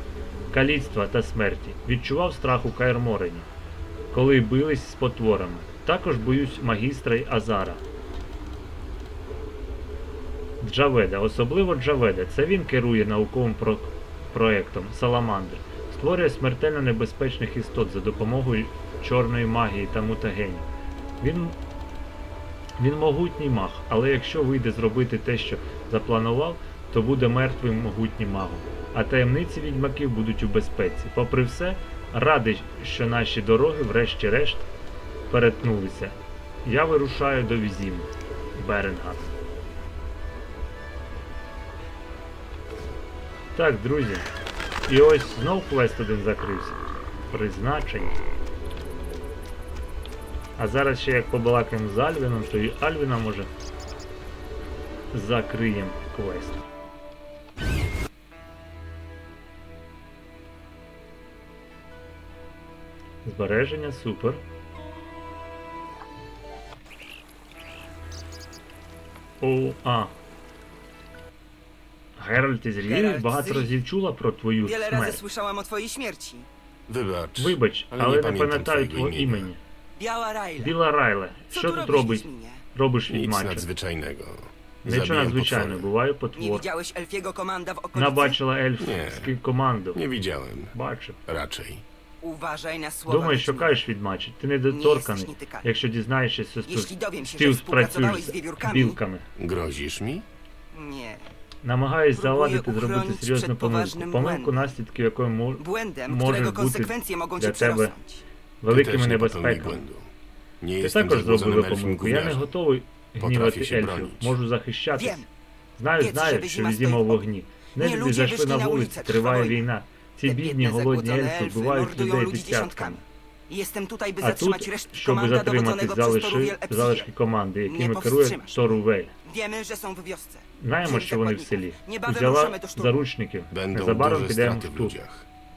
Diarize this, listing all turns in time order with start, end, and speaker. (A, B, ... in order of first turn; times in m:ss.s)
0:00.5-0:03.5 A
0:04.1-0:07.8 A
0:10.6-0:20.7 A
0:21.2-0:21.6 A
0:22.8-0:34.6 A
0:35.3-0:39.3 A
0:43.5-0:44.3 A
0:44.9-0:46.8 A
0:47.3-0:48.2 A
0:50.6-0:53.5 A
0:55.1-0:56.7 A
1:03.2-1:04.4 A
1:09.4-1:10.1 A
1:12.2-1:15.2 A
1:12.8-1:13.7 B
1:14.6-1:16.5 B
1:16.9-1:19.5 C
1:17.4-1:19.6 A
1:20.0-1:20.8 B
1:20.6-1:23.7 A
1:21.5-1:22.6 B
1:23.1-1:25.9 C
1:24.8-1:26.6 A
1:26.4-1:28.4 B
1:27.9-1:30.0 A
1:28.8-1:29.3 C
1:29.9-1:30.7 C
1:30.7-1:31.2 A
1:31.2-1:31.8 C
1:32.2-1:33.8 B
1:33.1-1:39.3 A
1:34.7-1:35.6 B
1:36.7-1:39.0 B
1:39.4-1:40.2 C
1:40.7-1:41.3 B
1:41.6-1:47.9 A
1:42.1-1:44.5 B
1:45.6-1:48.2 B
1:48.6-1:49.8 A
1:48.7-1:50.1 C
1:50.6-1:52.5 C
1:50.8-1:55.2 A
1:53.2-1:54.3 C
1:54.9-1:55.3 B
1:55.8-2:03.0 A
1:56.0-1:57.2 B
1:57.8-1:59.6 B
2:00.2-2:07.1 B
2:04.2-2:09.1 A
2:07.7-2:13.0 B
2:10.6-2:14.9 A
2:13.5-2:15.2 C